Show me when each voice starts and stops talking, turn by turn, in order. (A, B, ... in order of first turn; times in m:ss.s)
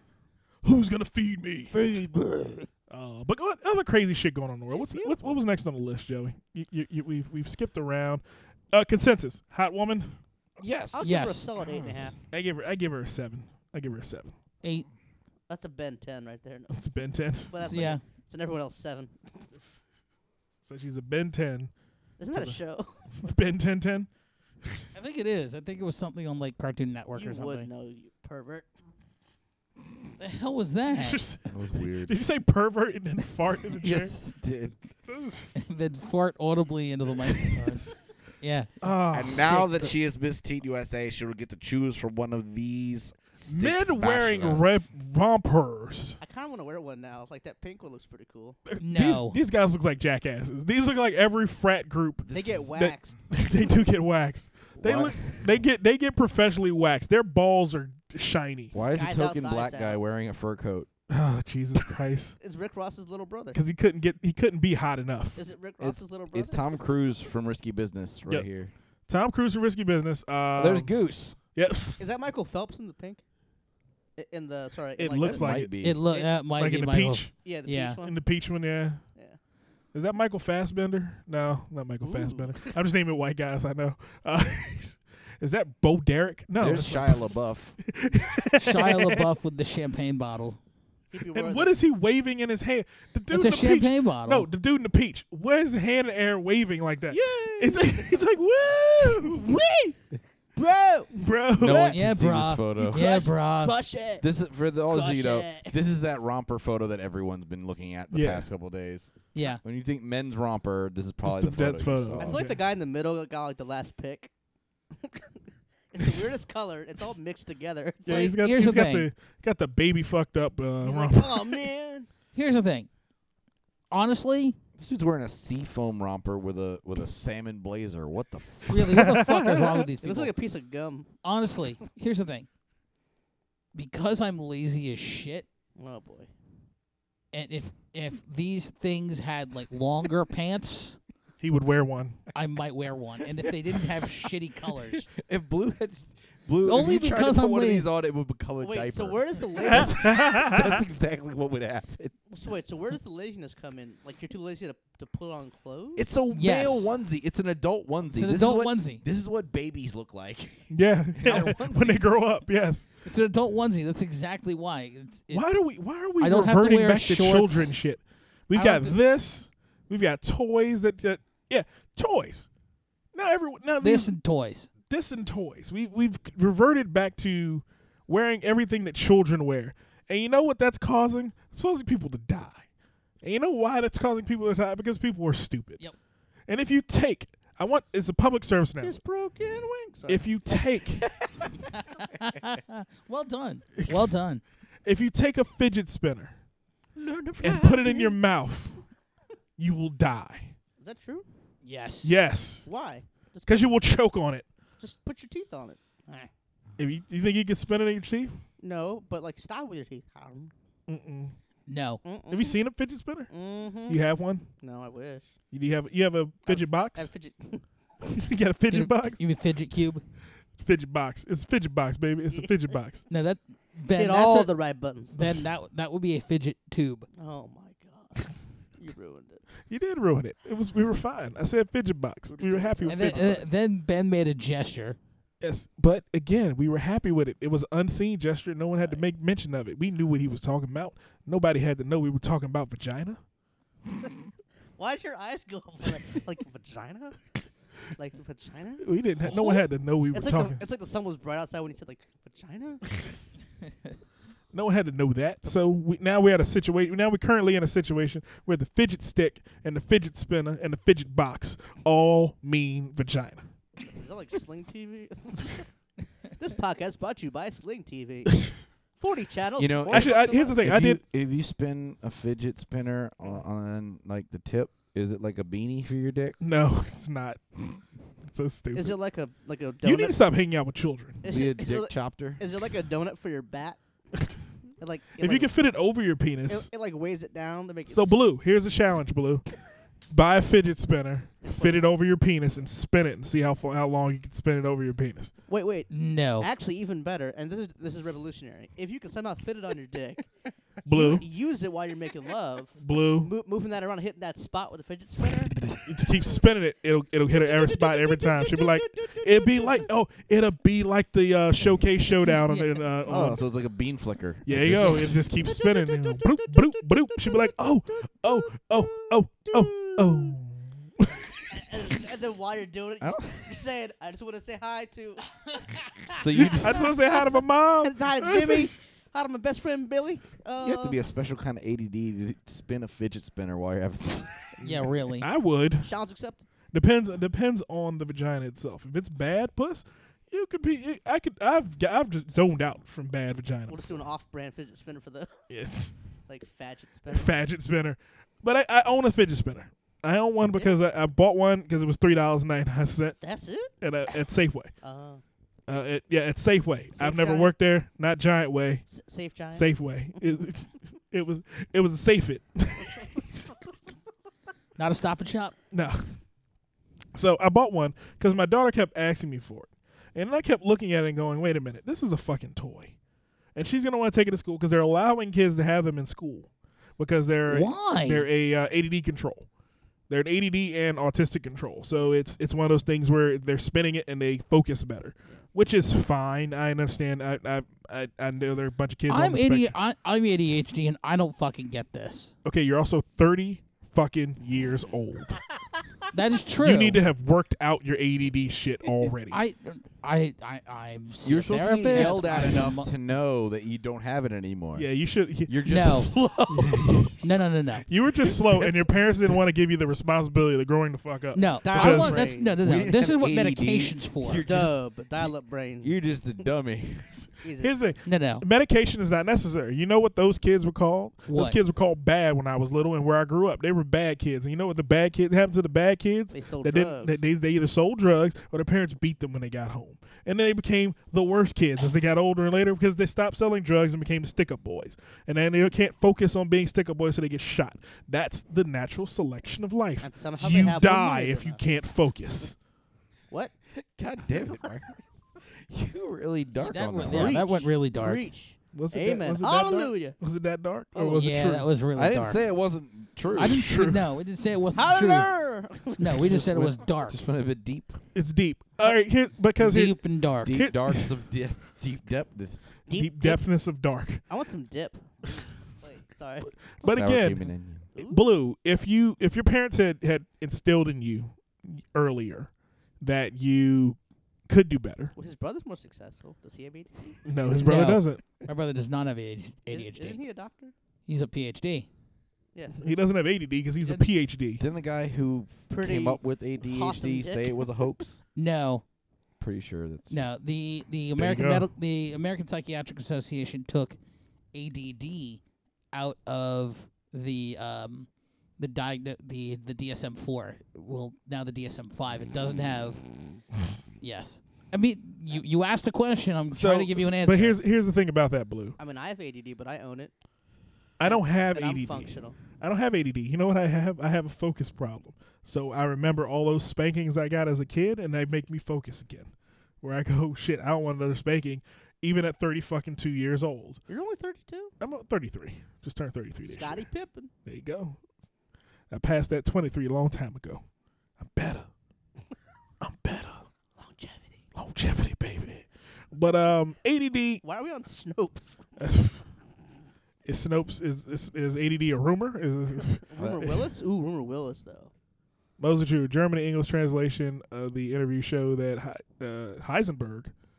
0:00.6-0:01.8 A
0:01.7-0:02.7 B
0:02.9-0:10.2 A
0:04.7-0:05.4 B
0:10.6-0:11.2 C
0:10.9-0:12.2 B
0:11.0-0:11.5 D
0:12.2-0:14.3 A
0:15.5-0:16.8 B
0:16.7-0:17.5 A
0:17.5-0:19.4 B
0:17.6-0:18.0 D
0:20.6-0:21.7 A
0:22.2-0:23.0 B
0:22.3-0:22.6 A
0:23.2-0:24.1 A
0:24.9-0:27.7 D
0:27.1-0:28.7 B
0:30.2-0:31.3 D
0:31.0-0:34.1 A
0:31.5-0:32.1 C
0:33.8-0:34.8 C
0:35.1-0:35.5 A
0:35.6-0:38.8 D
0:37.5-0:37.9 A
0:38.8-0:39.7 A
0:39.1-0:44.9 C
0:39.3-0:39.9 D
0:43.4-0:46.2 A
0:46.2-0:48.6 B
0:48.7-0:58.8 A
0:48.8-0:49.4 D
0:52.3-0:52.6 C
0:52.3-0:53.2 B
0:54.8-0:55.6 C
0:58.7-1:00.9 C
0:58.8-1:00.0 B
1:01.1-1:02.4 A
1:02.4-1:03.6 B
1:03.5-1:05.4 A
1:05.4-1:06.7 B
1:05.8-1:08.7 C
1:09.1-1:10.9 A
1:10.6-1:11.4 C
1:11.5-1:12.1 A
1:12.0-1:13.2 B
1:14.2-1:16.4 B
1:15.0-1:15.7 A
1:15.2-1:16.0 C
1:15.8-1:18.0 D
1:16.5-1:17.3 A
1:17.3-1:18.1 B
1:18.0-1:19.0 A
1:19.9-1:27.3 A
1:22.0-1:22.7 B
1:26.6-1:27.7 C
1:27.8-1:29.3 A
1:28.6-1:30.6 D
1:31.1-1:31.8 B
1:31.2-1:39.4 A
1:33.3-1:34.5 D
1:37.1-1:38.2 B
1:39.0-1:40.0 B
1:40.6-1:42.0 B
1:41.1-1:41.9 A
1:41.6-1:43.1 C
1:41.9-1:43.8 D
1:42.8-1:44.3 B
1:44.2-1:52.4 C
1:44.9-1:45.7 B
1:48.1-1:48.5 A
1:49.3-1:49.6 D
1:51.2-1:52.6 A
1:52.2-1:54.3 B
1:55.0-1:55.3 B
1:55.9-1:58.4 B
1:58.0-2:01.6 A
1:58.2-1:59.1 D
2:00.8-2:02.1 B
2:02.3-2:02.9 D
2:03.9-2:04.6 D
2:04.8-2:09.0 C
2:08.7-2:10.3 D
2:08.9-2:09.8 A
2:10.0-2:11.1 B
2:11.2-2:12.5 D
2:13.7-2:15.5 D
2:15.8-2:16.3 B
2:17.3-2:21.0 D
2:21.4-2:22.2 A
2:22.3-2:25.1 D
2:25.1-2:32.1 C
2:26.6-2:27.9 D
2:28.6-2:30.0 B
2:29.6-2:30.8 A
2:32.3-2:36.1 B
2:36.0-2:42.1 C
2:36.3-2:37.0 D
2:38.1-2:39.0 D
2:40.7-2:42.9 A
2:43.0-2:45.5 D
2:45.3-2:52.5 A
2:46.2-2:47.8 D
2:48.5-2:49.0 D
2:53.1-2:54.1 A
2:53.8-2:54.7 D
2:54.9-3:02.6 A
3:03.2-3:05.8 A
3:06.5-3:09.0 A
3:08.8-3:10.5 B
3:10.1-3:11.1 A
3:12.0-3:14.4 D
3:13.8-3:14.0 A
3:14.8-3:16.3 A
3:16.9-3:18.2 B
3:17.4-3:18.8 A
3:19.6-3:20.5 A
3:20.8-3:21.2 B
3:21.6-3:22.2 D
3:22.0-3:22.7 A
3:22.6-3:23.7 B
3:23.4-3:24.4 A
3:24.8-3:26.3 B
3:26.8-3:28.4 A
3:28.6-3:30.5 B
3:30.9-3:31.4 A
3:31.7-3:32.0 D
3:32.0-3:32.6 B
3:32.3-3:33.3 A
3:33.3-3:34.0 B
3:33.9-3:34.5 A
3:34.6-3:35.3 B
3:35.5-3:37.1 A
3:36.4-3:37.6 B
3:38.0-3:39.2 A
3:38.7-3:40.0 D
3:40.6-3:43.0 A
3:43.1-3:44.5 D
3:43.9-3:45.4 B
3:45.1-3:47.1 D
3:47.2-3:49.4 B
3:49.7-3:53.4 A
3:52.3-3:53.5 B
3:52.8-3:55.0 D
3:55.4-4:03.2 A
4:04.8-4:07.3 B
4:08.0-4:13.0 B
4:08.8-4:10.6 A
4:14.5-4:23.4 A
4:23.8-4:25.6 B
4:26.4-4:30.6 B
4:29.6-4:36.4 C
4:29.9-4:31.0 A
4:36.4-4:37.4 A
4:38.2-4:39.0 A
4:38.7-4:40.2 B
4:39.8-4:41.2 A
4:41.2-4:43.8 B
4:41.2-4:42.4 C
4:44.8-4:45.5 B
4:45.2-4:46.7 A
4:46.5-4:48.2 B
4:47.9-4:49.4 A
4:50.1-4:55.3 A
4:51.4-4:51.8 B
4:55.5-5:00.3 B
4:55.9-4:56.5 D
5:00.8-5:01.2 A
5:00.9-5:05.6 B
5:02.8-5:03.3 A
5:05.8-5:13.4 A
5:07.3-5:09.9 B
5:13.1-5:15.3 C
5:14.4-5:21.5 A
5:15.0-5:17.5 B
5:18.0-5:20.4 B
5:21.5-5:25.4 B
5:23.0-5:23.6 C
5:26.1-5:26.9 C
5:26.3-5:28.7 A
5:27.8-5:31.0 B
5:30.6-5:34.5 C
5:34.6-5:35.3 D
5:35.2-5:35.9 A
5:35.8-5:36.4 B
5:36.7-5:44.0 A
5:43.7-5:45.4 B
5:45.5-5:46.0 A
5:46.3-5:47.3 B
5:47.1-5:53.2 A
5:53.2-5:53.7 B
5:53.8-5:54.7 A
5:54.8-5:55.2 B
5:55.7-5:58.8 A
5:57.0-5:57.5 B
5:58.9-5:59.7 B
5:59.5-6:03.4 A
6:04.8-6:05.5 D
6:05.7-6:06.0 A
6:07.1-6:12.9 A
6:13.5-6:19.5 A
6:17.5-6:18.3 D
6:20.1-6:29.7 A
6:29.1-6:32.3 D
6:32.4-6:35.4 A
6:36.1-6:37.0 D
6:36.6-6:39.4 A
6:39.3-6:42.9 D
6:41.2-6:44.9 C
6:42.0-6:42.5 B
6:44.7-6:46.0 A
6:45.5-6:47.3 C
6:45.6-6:46.2 D
6:46.5-6:47.2 A
6:47.2-6:47.9 D
6:47.8-6:52.2 A
6:48.2-6:48.8 C
6:51.3-6:54.4 D
6:51.6-6:52.6 B
6:52.5-6:57.3 C
6:54.4-6:56.1 B
6:57.4-6:57.7 B
6:57.6-7:22.6 A
6:58.0-6:58.4 D
7:01.3-7:01.6 D
7:06.3-7:07.2 B
7:20.0-7:21.6 B
7:23.7-7:27.4 C
7:26.6-7:28.3 D
7:27.0-7:30.2 B
7:28.7-7:31.7 A
7:31.1-7:32.4 D
7:31.9-7:33.7 C
7:33.4-7:35.3 D
7:33.4-7:34.0 A
7:34.7-7:36.4 B
7:36.0-7:37.2 D
7:36.2-7:38.0 C
7:38.1-7:41.1 A
7:39.6-7:40.6 D
7:40.4-7:42.8 C
7:42.9-7:43.4 B
7:42.9-7:44.2 A
7:44.3-7:46.6 B
7:46.8-7:54.0 A
7:46.8-7:47.9 C
7:47.9-7:48.2 B
7:54.5-7:55.1 A
7:55.1-7:57.2 B
7:57.2-7:58.2 A
7:57.5-8:00.2 D
7:59.7-8:00.7 B
8:01.1-8:01.9 D
8:02.5-8:03.0 B
8:02.8-8:04.6 A
8:04.6-8:08.2 C
8:05.7-8:07.7 B
8:08.3-8:08.8 D
8:09.4-8:10.2 C
8:10.1-8:14.0 D
8:11.2-8:11.7 A
8:14.5-8:23.0 D
8:24.0-8:27.6 D
8:26.5-8:28.8 A
8:28.8-8:30.1 B
8:31.0-8:43.8 A
8:31.0-8:32.4 B
8:43.9-8:44.7 B
8:44.8-8:46.9 A
8:46.4-8:47.3 B
8:47.4-8:48.0 A
8:48.9-8:50.6 A
8:51.2-8:51.7 A
8:52.8-8:53.5 A
8:53.8-8:54.4 B
8:54.5-8:57.4 A
8:57.4-8:58.6 B
8:58.8-8:59.2 A
9:00.2-9:03.0 A
9:03.0-9:04.9 B
9:03.2-9:03.6 C
9:05.6-9:10.3 A